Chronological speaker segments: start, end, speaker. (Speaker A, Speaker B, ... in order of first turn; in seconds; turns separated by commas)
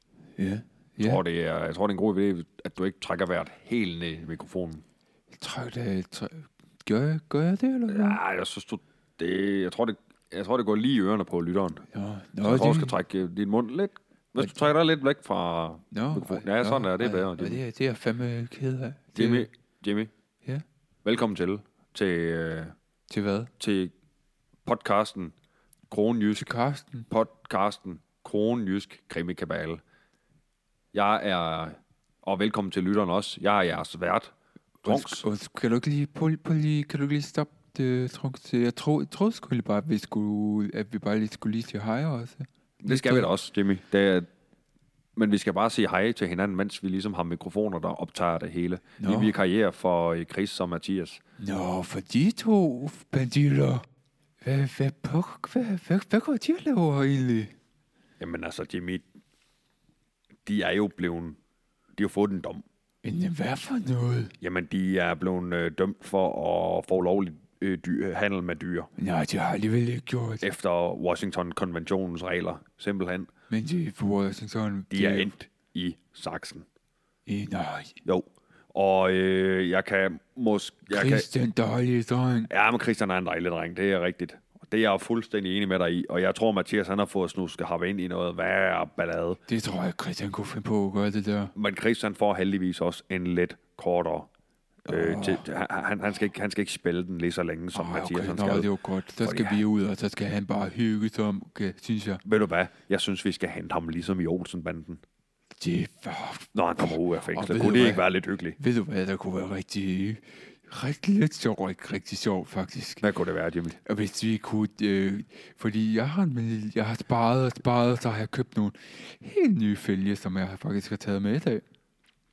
Speaker A: 0.4-1.2, Speaker B: 1.0-4.8, Speaker A: 5.3-8.2, Speaker B: 7.9-11.8, Speaker A: 11.9-13.0, Speaker B: 12.4-17.6, Speaker A: 14.4-14.7, Speaker A: 15.9-19.5, Speaker B: 19.1-20.1, Speaker B: 21.1-22.7, Speaker A: 23.1-23.5, Speaker B: 23.6-23.9, Speaker B: 24.7-25.3, Speaker B: 25.9-26.5, Speaker A: 26.4-27.1, Speaker B: 27.1-29.8, Speaker B: 30.9-34.3, Speaker A: 34.8-43.3, Speaker B: 34.8-35.2, Speaker B: 42.8-44.3, Speaker B: 45.2-51.2, Speaker A: 49.0-49.3, Speaker A: 51.4-53.8, Speaker A: 54.4-57.5, Speaker B: 58.2-59.0, Speaker B: 60.5-61.4, Speaker B: 62.0-62.6, Speaker A: 63.0-64.3, Speaker B: 64.4-68.9, Speaker A: 69.0-70.4, Speaker B: 70.4-73.3, Speaker A: 73.5-75.3, Speaker B: 74.9-76.7, Speaker A: 77.3-77.9, Speaker B: 78.0-81.3, Speaker A: 80.9-82.5, Speaker B: 82.5-89.4, Speaker A: 89.5-91.5, Speaker B: 91.5-94.3, Speaker B: 94.9-98.7, Speaker A: 94.9-95.4, Speaker A: 97.7-102.2, Speaker B: 99.2-99.6, Speaker B: 102.2-105.0, Speaker A: 105.6-108.0, Speaker B: 106.5-108.6, Speaker A: 108.6-113.0, Speaker B: 113.0-113.8, Speaker A: 113.9-121.6